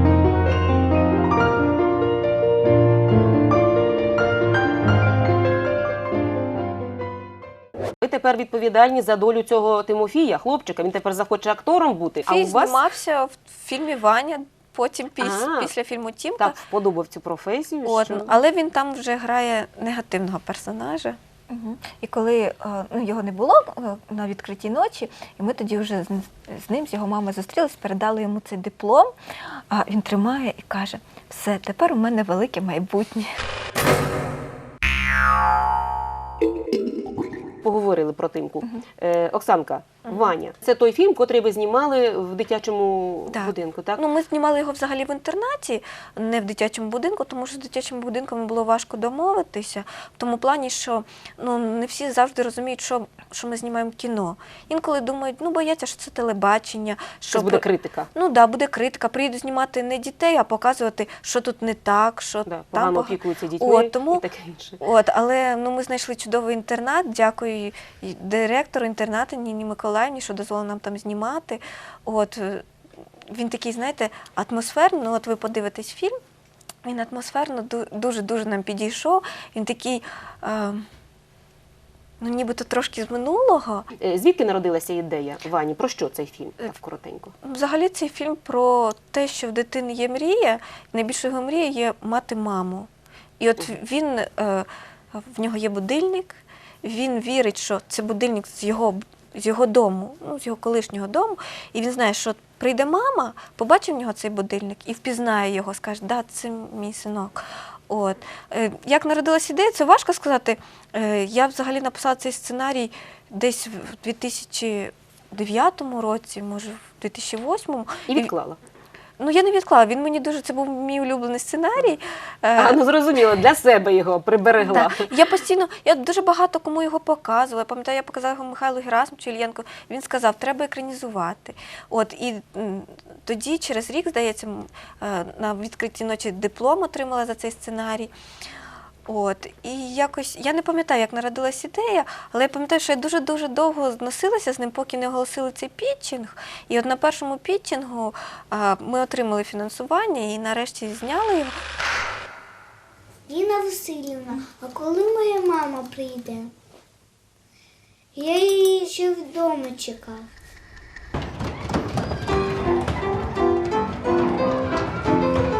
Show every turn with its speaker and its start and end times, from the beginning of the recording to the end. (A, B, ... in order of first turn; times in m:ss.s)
0:08.0-0:12.8 A
0:12.3-0:16.6 B
0:15.2-0:15.7 A
0:16.4-0:18.3 A
0:17.8-0:21.2 B
0:21.5-0:29.1 C
0:29.7-0:33.3 C
0:37.6-0:44.0 A
0:40.1-0:40.3 B
0:43.3-1:04.2 B
0:57.3-0:58.1 A
1:02.5-1:04.8 A
1:04.8-1:12.6 B
1:13.3-1:16.2 B
1:16.8-1:20.8 B
1:22.2-1:23.9 B
1:24.0-1:27.3 A
1:27.4-1:32.9 B
1:33.4-1:58.3 B
1:58.1-1:58.6 A
1:59.2-2:02.8 B
2:02.6-2:05.1 A
2:04.6-2:18.1 B
2:19.1-2:31.6 B
2:33.3-2:36.5 D
2:38.1-2:40.3 D